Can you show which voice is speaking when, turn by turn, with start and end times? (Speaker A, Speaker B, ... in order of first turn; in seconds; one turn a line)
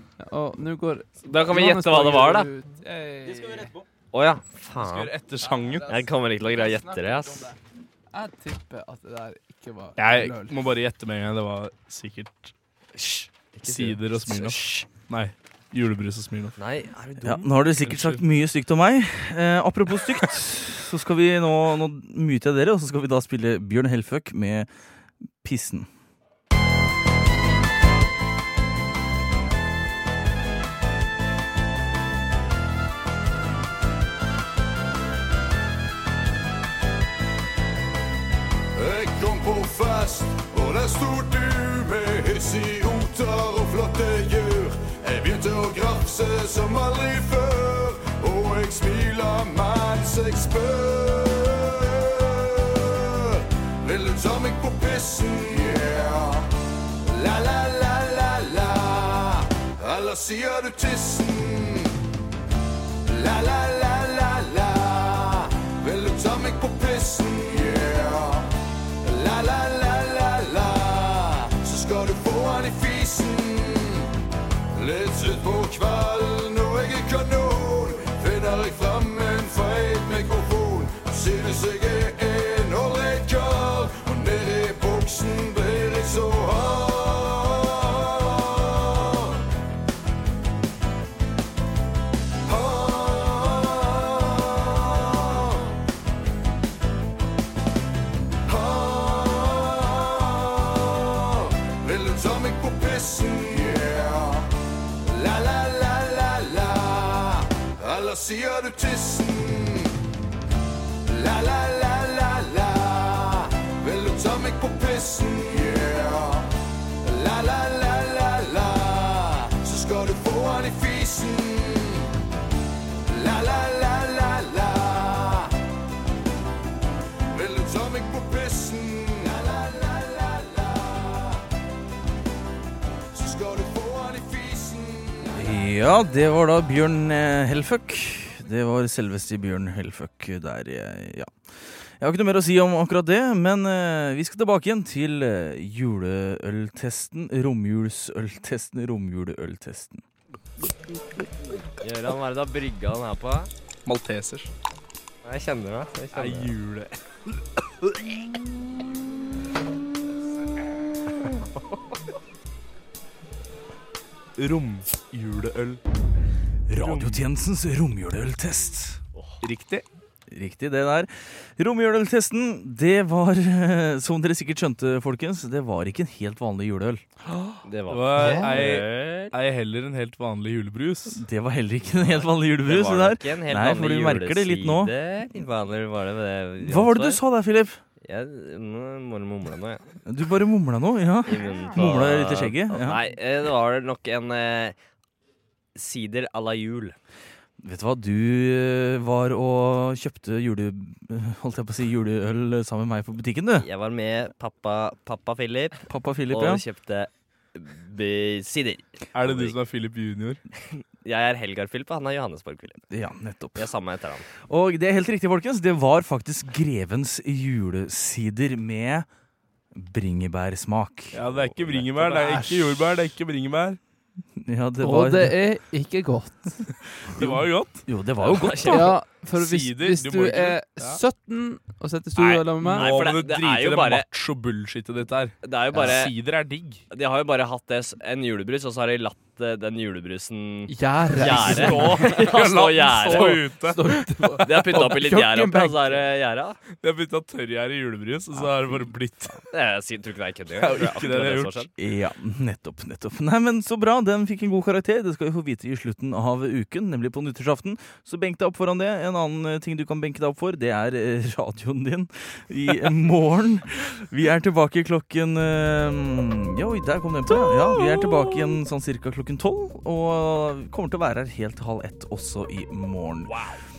Speaker A: 0.2-3.7
Speaker B: 1.2-2.5
Speaker C: 3.2-3.8
Speaker B: 4.1-5.2
Speaker D: 4.7-5.9
Speaker A: 5.4-7.6
Speaker B: 5.9-7.5
Speaker A: 8.1-10.6
Speaker D: 10.0-12.5
Speaker B: 12.9-14.9
Speaker D: 13.6-16.6
Speaker B: 16.6-17.7
Speaker C: 17.2-24.7
Speaker D: 17.9-18.2
Speaker C: 25.4-25.9
Speaker E: 38.7-56.5
Speaker E: 57.0-62.0
Speaker E: 63.0-74.2
Speaker E: 74.7-89.4
Speaker E: 92.4-95.7
Speaker E: 98.4-109.9
Speaker E: 111.0-122.2
Speaker E: 123.0-125.5
Speaker E: 127.3-131.4
Speaker E: 133.1-135.4
Speaker C: 135.3-141.3
Speaker C: 142.0-150.0
Speaker B: 151.8-153.5
Speaker D: 153.8-154.5
Speaker B: 155.2-156.5
Speaker D: 156.1-158.0
Speaker D: 164.4-165.8
Speaker C: 166.7-169.0
Speaker D: 166.8-167.2
Speaker D: 169.4-169.8
Speaker C: 170.3-177.1
Speaker B: 177.6-179.4
Speaker D: 177.9-181.2
Speaker A: 178.2-178.6
Speaker C: 181.1-184.9
Speaker B: 181.8-187.2
Speaker C: 186.6-187.8
Speaker B: 188.0-189.8
Speaker C: 190.1-193.0
Speaker B: 191.2-194.8
Speaker B: 195.7-196.9
Speaker C: 197.6-203.7
Speaker B: 203.6-209.6
Speaker C: 205.8-206.6
Speaker D: 209.1-210.4
Speaker B: 210.6-212.8
Speaker C: 212.9-213.7
Speaker B: 213.6-214.3
Speaker C: 214.4-219.1
Speaker C: 219.7-221.3
Speaker D: 221.1-223.8
Speaker B: 221.2-221.9
Speaker A: 221.9-222.8
Speaker C: 224.4-225.4
Speaker A: 224.8-227.4
Speaker D: 227.2-227.8
Speaker C: 227.9-229.0
Speaker B: 228.2-229.0
Speaker A: 228.6-233.0
Speaker D: 229.2-231.0
Speaker D: 232.2-236.8
Speaker B: 232.8-234.1
Speaker B: 235.4-236.2
Speaker B: 236.9-243.5
Speaker A: 240.7-242.3
Speaker D: 241.2-243.9
Speaker A: 243.1-246.1
Speaker B: 244.4-246.6
Speaker D: 246.7-249.5
Speaker B: 249.5-251.7
Speaker D: 250.5-251.6
Speaker C: 251.8-273.4
Speaker D: 273.3-273.6